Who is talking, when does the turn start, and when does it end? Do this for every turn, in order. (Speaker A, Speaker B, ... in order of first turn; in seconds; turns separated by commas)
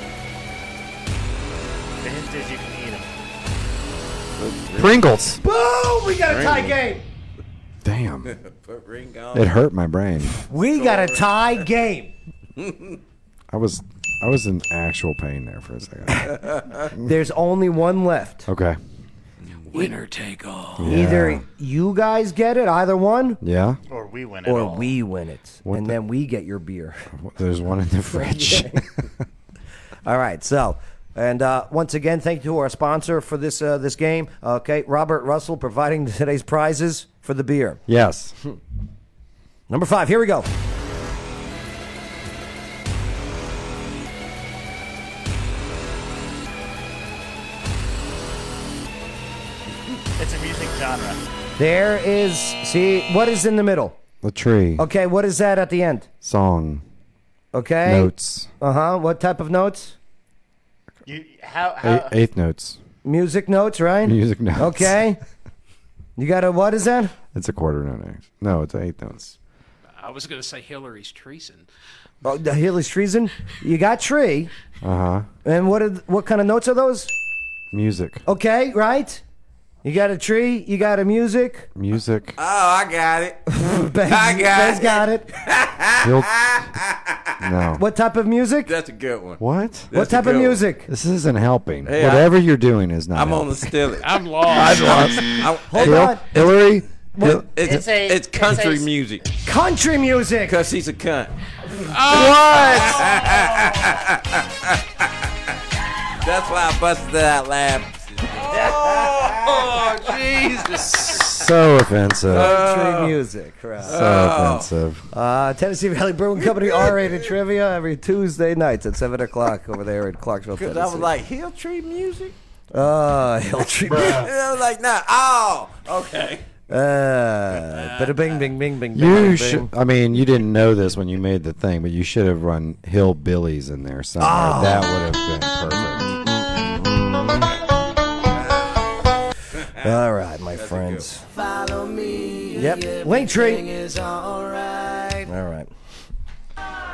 Speaker A: 2.0-3.1, Speaker B: 4.3-5.0, Speaker C: 4.8-5.4, Speaker D: 5.4-7.0, Speaker B: 6.3-6.7, Speaker C: 7.8-8.3, Speaker B: 8.3-9.5, Speaker C: 9.3-10.4, Speaker D: 10.5-12.1, Speaker B: 10.7-11.2, Speaker B: 12.6-13.0, Speaker C: 13.5-16.3, Speaker D: 17.0-18.5, Speaker C: 18.5-18.8, Speaker E: 19.7-21.0, Speaker C: 20.8-21.4, Speaker D: 20.9-23.4, Speaker C: 23.4-23.8, Speaker A: 23.9-24.9, Speaker D: 24.4-27.1, Speaker C: 25.7-25.9, Speaker C: 27.1-29.0, Speaker D: 28.1-28.8, Speaker D: 30.0-37.8, Speaker C: 37.9-38.4, Speaker D: 39.7-40.5, Speaker A: 50.2-51.2, Speaker D: 51.6-54.0, Speaker C: 54.2-54.8, Speaker D: 54.8-56.1, Speaker C: 56.2-56.8, Speaker D: 57.5-60.0, Speaker C: 57.8-58.5, Speaker A: 61.0-62.1, Speaker C: 61.8-62.8, Speaker D: 63.0-65.2, Speaker C: 64.0-65.0, Speaker D: 66.2-67.1, Speaker C: 67.3-69.4, Speaker E: 70.0-71.7, Speaker D: 72.2-74.5, Speaker C: 74.8-75.3, Speaker D: 75.4-77.1, Speaker C: 77.7-78.2, Speaker D: 78.2-79.2, Speaker D: 79.8-81.7, Speaker C: 81.8-82.4, Speaker B: 82.4-87.4, Speaker D: 83.5-85.3, Speaker C: 86.0-86.5, Speaker C: 87.4-87.8, Speaker D: 87.7-88.7, Speaker B: 88.7-90.6, Speaker C: 89.4-89.9, Speaker D: 89.9-90.9, Speaker C: 90.9-93.7, Speaker B: 91.8-92.3, Speaker B: 93.1-96.2, Speaker E: 94.0-95.2, Speaker C: 94.5-97.5, Speaker D: 95.7-96.4, Speaker D: 97.1-97.5, Speaker B: 97.3-99.2, Speaker A: 97.6-98.9, Speaker D: 99.4-100.6, Speaker B: 100.5-101.3, Speaker E: 101.8-103.5, Speaker B: 102.1-105.2, Speaker B: 106.2-111.3, Speaker E: 108.4-111.1, Speaker C: 110.9-112.6, Speaker D: 112.3-114.0, Speaker B: 112.3-113.2, Speaker B: 113.8-114.7, Speaker C: 113.9-115.0, Speaker D: 115.1-121.1, Speaker B: 120.5-122.3, Speaker D: 122.7-124.3, Speaker B: 123.8-126.5, Speaker D: 126.7-129.7, Speaker B: 127.7-128.1, Speaker C: 128.9-136.1, Speaker D: 134.2-134.9, Speaker D: 135.7-137.6, Speaker D: 139.8-141.4, Speaker B: 140.6-141.0, Speaker D: 142.4-143.8, Speaker B: 144.7-145.0, Speaker D: 145.2-145.7